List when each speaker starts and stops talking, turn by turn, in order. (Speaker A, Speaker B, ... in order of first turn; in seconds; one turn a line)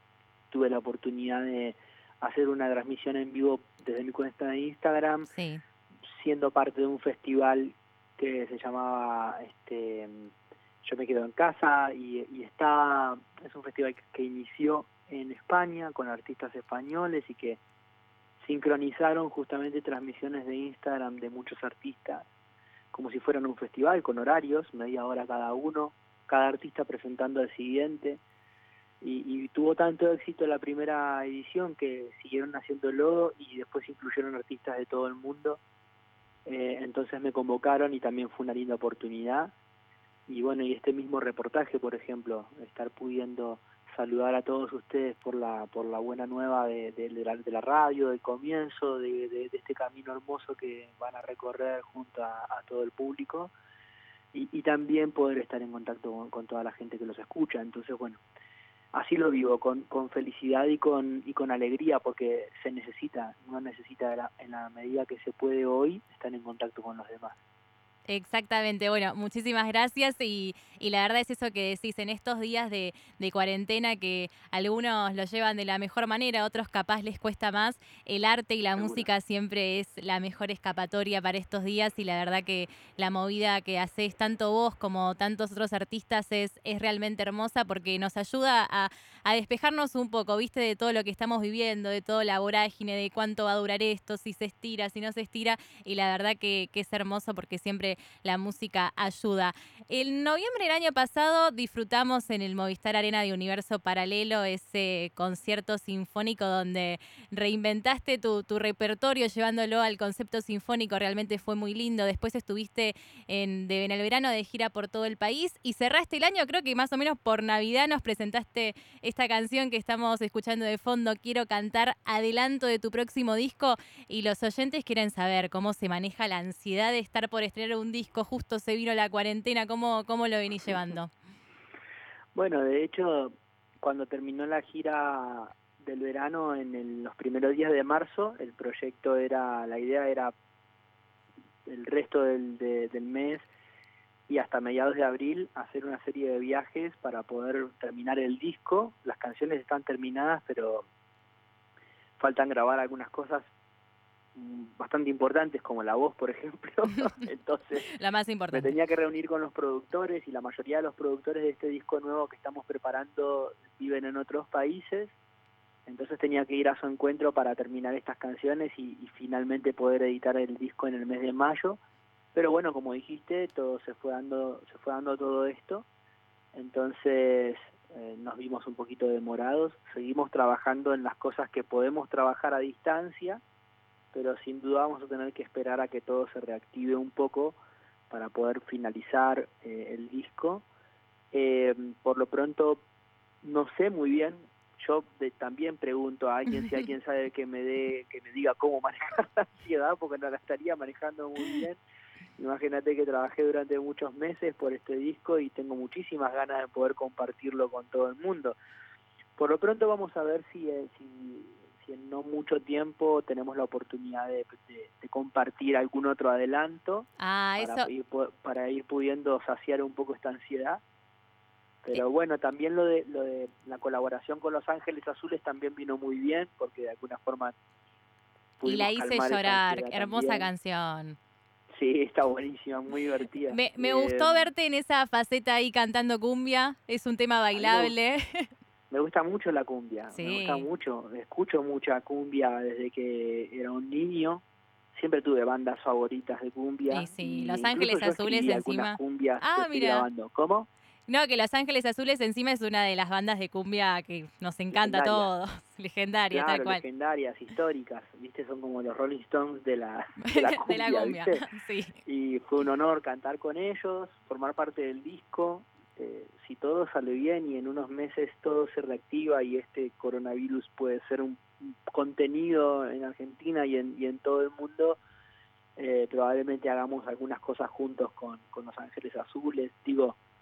Speaker A: 0.5-5.3
Speaker B: 5.3-5.6
Speaker A: 6.1-10.3
Speaker A: 10.8-17.6
Speaker A: 18.4-22.2
Speaker A: 22.9-28.2
Speaker A: 29.0-35.6
Speaker A: 36.5-39.5
Speaker A: 40.3-53.5
Speaker A: 54.3-58.2
Speaker A: 58.9-67.4
Speaker B: 68.1-131.1
Speaker A: 78.7-79.1
Speaker A: 132.3-140.3
Speaker A: 141.7-143.5
Speaker A: 144.3-150.9
Speaker A: 152.2-153.5
Speaker A: 154.3-157.9
Speaker B: 157.9-158.7
Speaker A: 158.5-165.1
Speaker A: 165.9-171.8
Speaker A: 172.3-175.8
Speaker A: 176.5-183.4
Speaker A: 184.1-187.6
Speaker A: 188.1-190.7
Speaker A: 191.3-192.8
Speaker A: 193.4-201.8
Speaker A: 202.4-208.6
Speaker A: 209.4-220.8
Speaker B: 217.2-217.9
Speaker A: 221.8-227.5
Speaker A: 228.6-230.5
Speaker B: 228.6-231.2
Speaker A: 231.7-234.5
Speaker B: 233.5-238.5
Speaker A: 237.5-237.9
Speaker A: 238.9-250.7
Speaker B: 240.1-240.7
Speaker B: 246.9-250.1
Speaker B: 251.1-256.8
Speaker A: 254.7-255.3
Speaker A: 256.3-261.4
Speaker B: 260.2-262.0
Speaker A: 262.0-275.0
Speaker A: 275.8-280.2